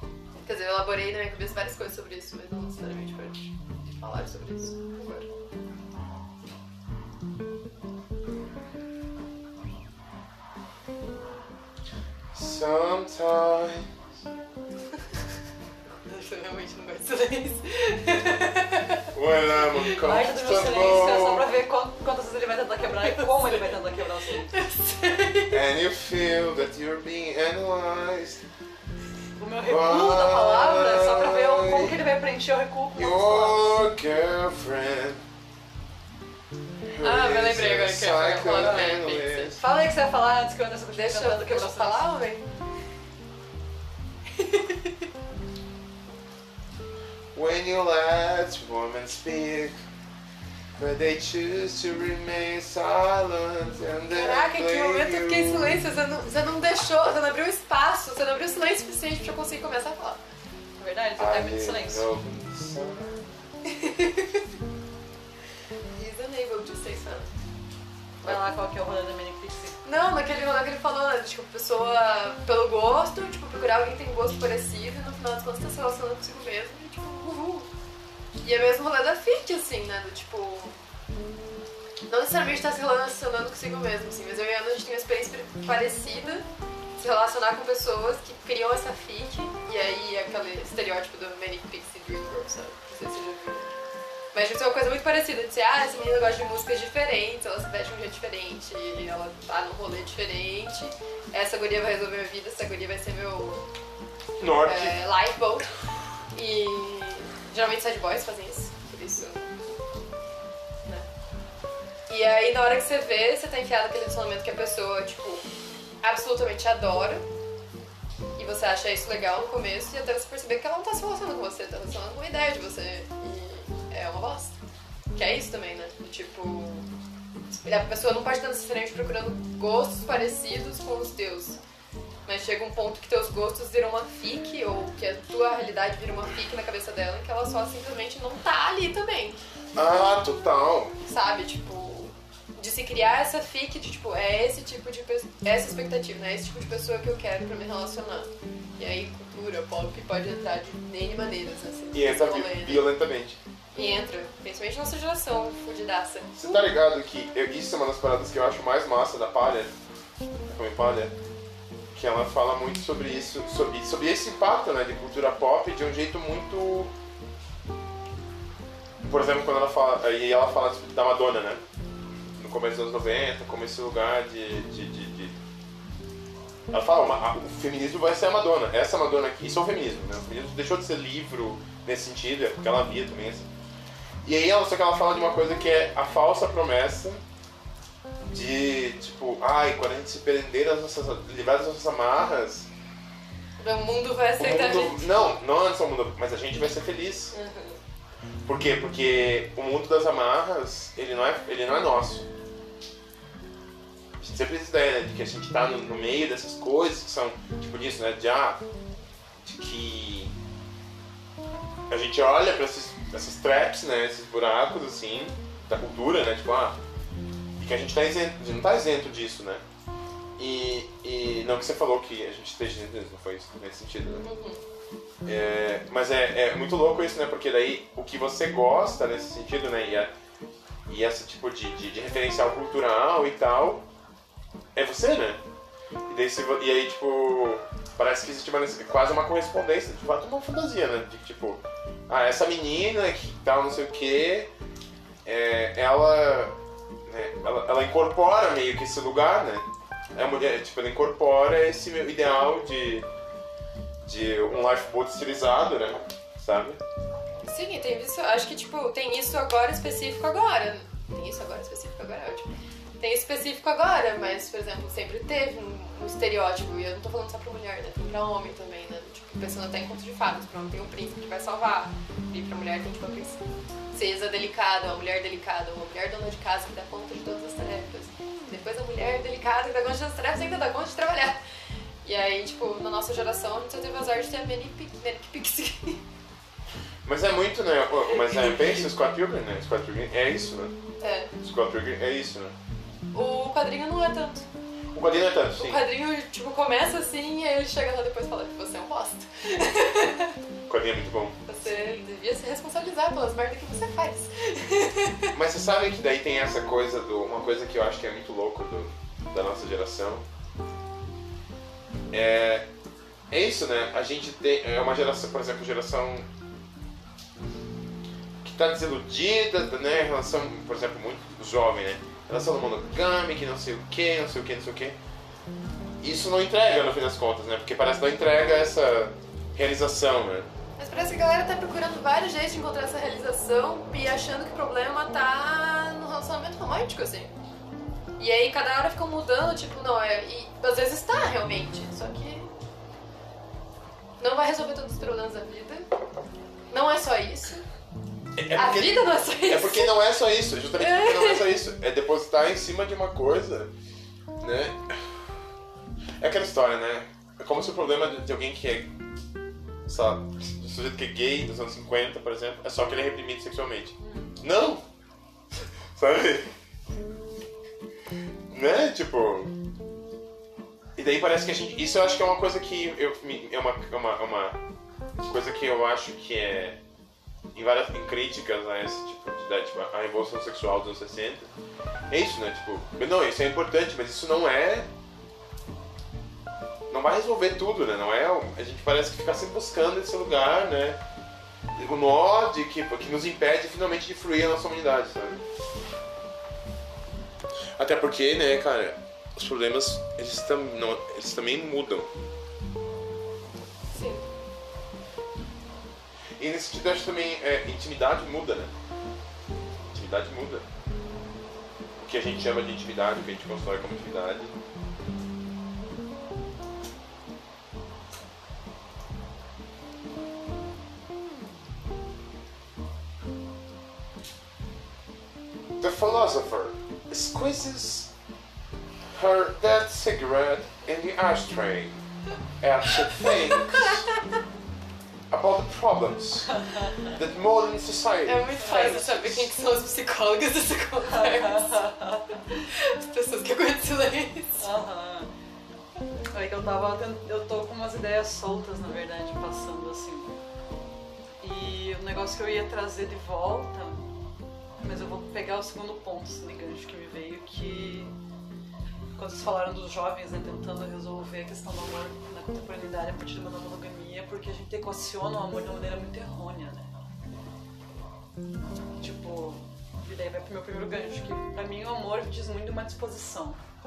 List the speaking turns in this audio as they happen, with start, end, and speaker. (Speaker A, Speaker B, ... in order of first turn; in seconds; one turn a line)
Speaker A: 0.4-5.3
Speaker B: 12.3-13.9
Speaker A: 16.0-19.1
Speaker B: 19.1-21.5
Speaker C: 20.0-24.5
Speaker A: 22.9-25.6
Speaker B: 25.5-28.4
Speaker C: 29.4-33.8
Speaker B: 29.6-31.9
Speaker B: 33.0-35.2
Speaker B: 36.9-39.6
Speaker A: 37.0-39.5
Speaker C: 38.5-38.9
Speaker C: 39.6-42.0
Speaker A: 40.9-42.5
Speaker A: 44.4-44.9
Speaker B: 47.3-49.8
Speaker B: 50.8-55.8
Speaker A: 54.1-60.2
Speaker C: 60.8-62.1
Speaker B: 61.2-63.3
Speaker A: 63.6-64.4
Speaker A: 66.0-67.3
Speaker C: 68.2-69.8
Speaker A: 69.8-77.7
Speaker A: 78.4-80.8
Speaker A: 82.1-86.5
Speaker A: 87.0-93.7
Speaker A: 94.3-103.7
Speaker B: 104.4-105.0
Speaker A: 104.6-105.7
Speaker A: 106.3-109.6
Speaker A: 112.1-115.4
Speaker A: 116.0-117.2
Speaker A: 118.3-124.5
Speaker A: 125.1-126.9
Speaker A: 127.5-131.6
Speaker A: 132.2-139.4
Speaker B: 139.8-140.9
Speaker A: 141.0-152.8
Speaker B: 151.9-153.4
Speaker A: 153.7-156.7
Speaker B: 156.3-159.7
Speaker B: 160.5-161.1
Speaker B: 161.9-166.9
Speaker B: 169.0-171.6
Speaker B: 172.3-175.4
Speaker B: 176.7-183.5
Speaker B: 184.2-187.2
Speaker B: 188.3-192.7
Speaker A: 193.6-195.1
Speaker B: 194.4-197.3
Speaker A: 197.3-197.8
Speaker B: 198.4-202.3
Speaker B: 204.2-208.6
Speaker B: 209.4-210.3
Speaker B: 211.9-216.8
Speaker B: 217.6-219.6
Speaker B: 220.4-224.2
Speaker A: 224.2-224.6
Speaker B: 225.2-230.1
Speaker B: 230.9-233.8
Speaker B: 234.7-235.4
Speaker B: 236.1-244.5
Speaker B: 245.2-253.1
Speaker B: 254.0-256.8
Speaker A: 257.4-273.4
Speaker A: 273.9-281.4
Speaker A: 282.0-286.0
Speaker B: 287.0-290.7
Speaker A: 288.1-288.8
Speaker A: 291.0-291.3
Speaker B: 291.4-292.5
Speaker A: 293.1-294.4
Speaker B: 294.9-295.8
Speaker A: 295.6-300.4
Speaker B: 300.7-301.4
Speaker A: 301.5-305.3
Speaker B: 305.3-310.2
Speaker B: 312.1-312.7
Speaker B: 313.3-316.3
Speaker B: 318.4-325.0
Speaker B: 326.0-330.5
Speaker A: 330.8-337.3
Speaker A: 338.2-342.5
Speaker A: 344.2-345.9
Speaker A: 346.7-347.6
Speaker B: 348.4-353.7
Speaker A: 348.5-349.9
Speaker A: 350.8-351.5
Speaker B: 354.4-355.3
Speaker B: 356.2-358.9
Speaker B: 359.8-364.8
Speaker C: 364.0-364.3
Speaker B: 365.9-366.5
Speaker B: 368.5-369.5
Speaker B: 370.9-374.6
Speaker B: 375.2-376.8
Speaker B: 377.5-381.4
Speaker B: 382.1-384.9
Speaker B: 386.9-391.0
Speaker B: 391.8-395.4
Speaker B: 397.8-402.1
Speaker A: 403.9-404.2
Speaker B: 406.4-408.7
Speaker B: 409.9-410.6
Speaker B: 412.0-414.5
Speaker B: 425.8-428.1
Speaker B: 429.1-432.0
Speaker B: 432.6-434.1
Speaker A: 433.5-434.2
Speaker B: 435.3-439.5
Speaker C: 436.5-437.0
Speaker A: 438.2-441.9
Speaker C: 438.6-439.0
Speaker C: 441.0-442.6
Speaker A: 442.5-444.8
Speaker C: 444.6-445.3
Speaker C: 446.3-450.4
Speaker C: 451.4-454.1
Speaker C: 454.8-458.1
Speaker C: 459.1-466.9
Speaker C: 469.0-473.6